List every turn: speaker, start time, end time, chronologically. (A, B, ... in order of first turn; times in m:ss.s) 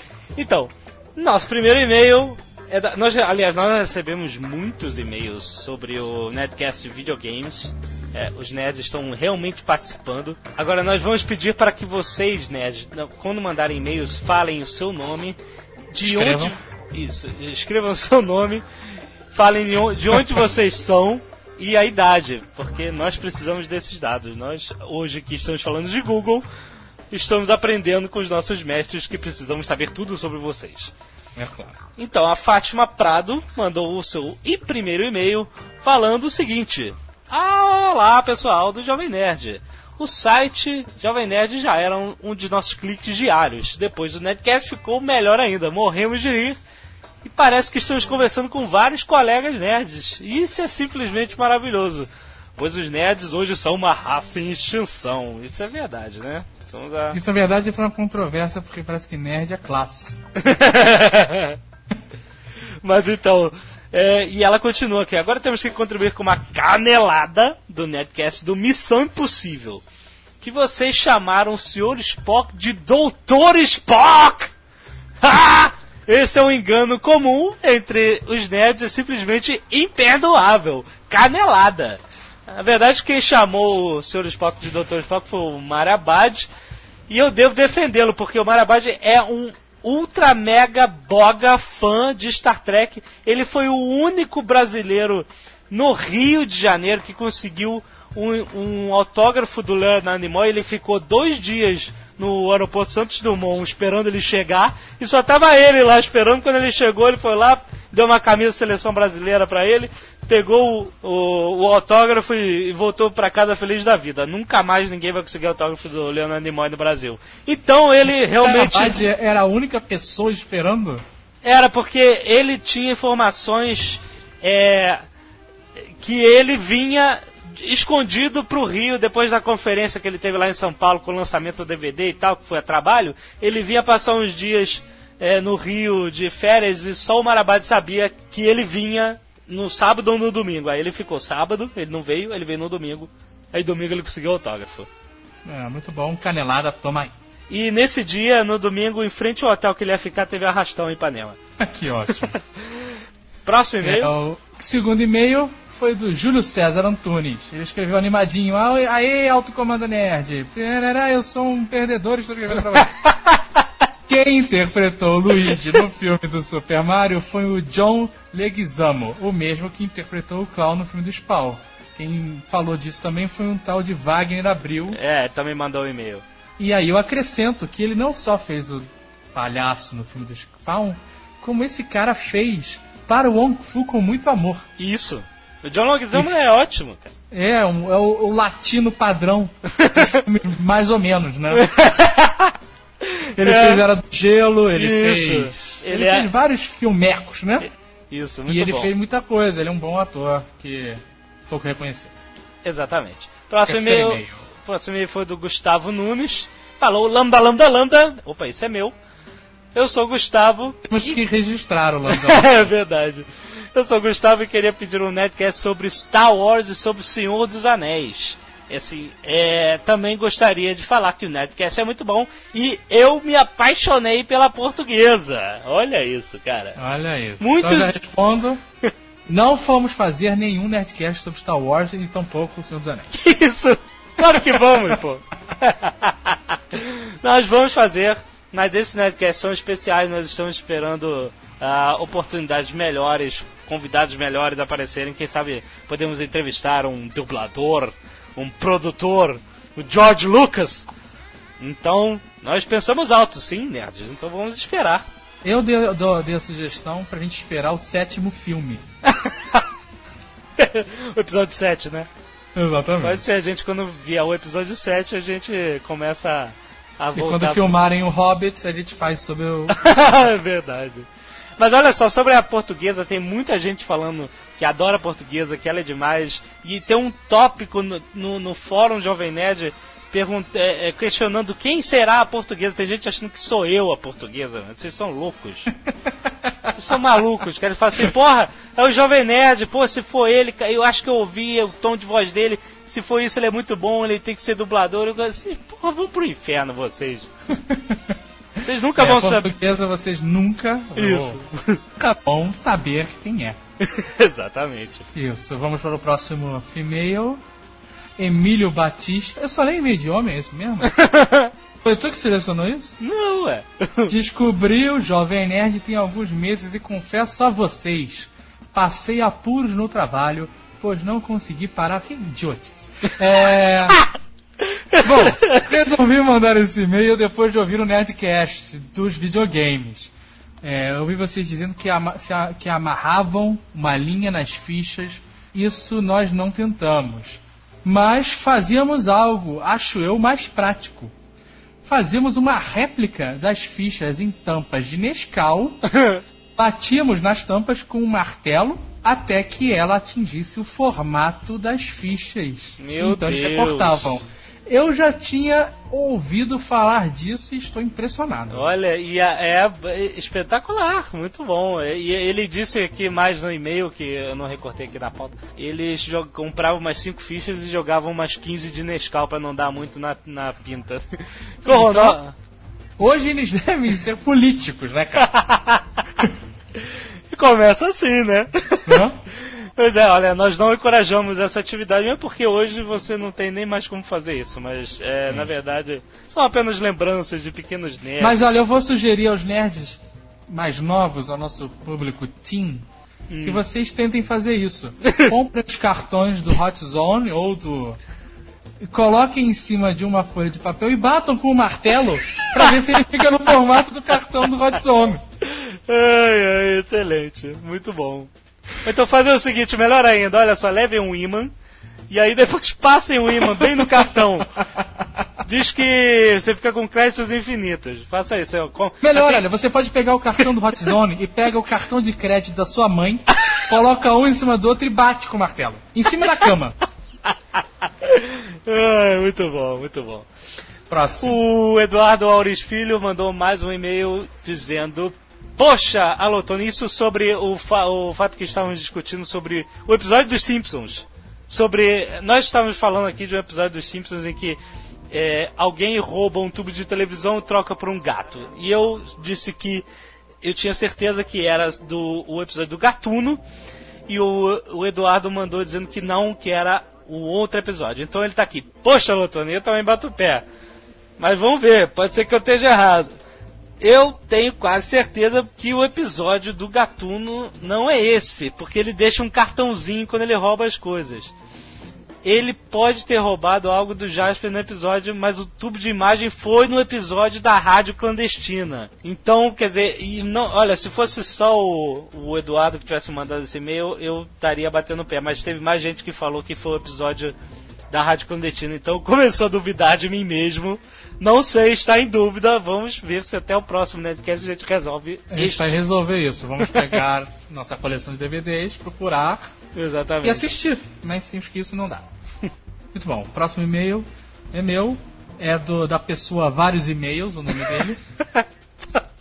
0:00.3-0:15.4 A
0:15.9-0:18.6 A
0:16.0-0:16.5 B
0:19.3-0:26.4 A
0:27.1-0:30.9 A
0:31.4-0:31.7 B
0:32.0-0:46.6 A
0:47.2-0:57.2 A
0:57.1-1:00.2 B
1:00.4-1:01.6 A
1:02.8-1:09.8 A
1:10.4-1:14.5 A
1:15.2-1:26.5 A
1:27.1-1:59.1 A
1:58.2-2:01.0 B
2:01.4-2:05.0 A
2:06.0-2:24.9 A
2:25.4-2:27.1 B
2:27.5-2:31.4 A
2:31.6-2:32.4 B
2:33.4-2:34.1 A
2:33.8-2:42.9 B
2:44.1-2:55.0 B
2:54.9-2:56.2 A
2:56.6-3:04.6 B
3:04.8-3:07.1 A
3:07.3-3:11.7 B
3:11.5-3:12.5 A
3:13.4-3:17.6 B
3:13.4-3:13.9 A
3:14.7-3:16.3 A
3:17.6-3:18.9 A
3:18.5-3:22.1 B
3:22.6-3:28.9 A
3:23.7-3:24.4 B
3:29.7-3:31.2 A
3:30.9-3:32.7 B
3:32.1-3:46.8 A
3:46.8-3:48.6 B
3:47.4-3:48.0 A
3:49.3-3:53.1 B
3:53.1-4:10.9 A
4:11.6-4:15.0 A
4:15.4-4:18.8 B
4:19.0-4:19.6 A
4:20.6-4:22.1 A
4:22.6-4:23.2 B
4:23.0-4:27.8 A
4:27.1-4:29.8 B
4:29.7-4:31.1 A
4:31.6-4:45.7 A
4:46.7-4:57.3 A
4:57.6-4:58.1 B
4:58.6-4:59.5 A
4:59.0-5:01.4 B
5:00.9-5:01.8 A
5:02.0-5:03.6 B
5:03.8-5:05.0 A
5:05.1-5:07.4 B
5:08.2-5:11.0 B
5:10.8-5:11.5 A
5:11.8-5:12.9 B
5:13.0-5:14.1 A
5:14.1-5:24.0 B
5:25.0-5:41.1 B
5:41.8-5:45.8 B
5:45.9-5:46.2 A
5:46.6-5:58.7 B
5:52.8-5:54.2 A
5:58.5-6:11.0 A
6:11.6-6:12.3 A
6:11.6-6:12.2 B
6:13.0-6:15.3 B
6:15.2-6:16.3 A
6:17.3-6:28.5 A
6:18.9-6:19.2 B
6:28.2-6:32.8 B
6:33.3-6:33.6 A
6:33.4-6:38.0 B
6:35.0-6:35.3 A
6:38.8-6:45.2 B
6:45.4-6:48.3 A
6:48.8-6:51.5 A
6:52.1-6:54.5 A
6:55.4-6:59.4 A
6:59.0-7:06.8 B
7:08.0-7:10.3 A
7:10.9-7:11.4 B
7:11.2-7:24.6 A
7:25.1-7:29.8 A
7:30.4-7:33.4 A
7:34.1-7:40.4 A
7:41.2-7:43.1 A
7:43.8-7:51.3 A
7:52.2-8:07.3 A
8:07.9-8:15.8 A
8:15.3-8:19.4 B
8:16.7-8:17.0 A
8:19.7-8:20.5 A
8:20.2-8:22.0 B
8:22.9-8:28.0 B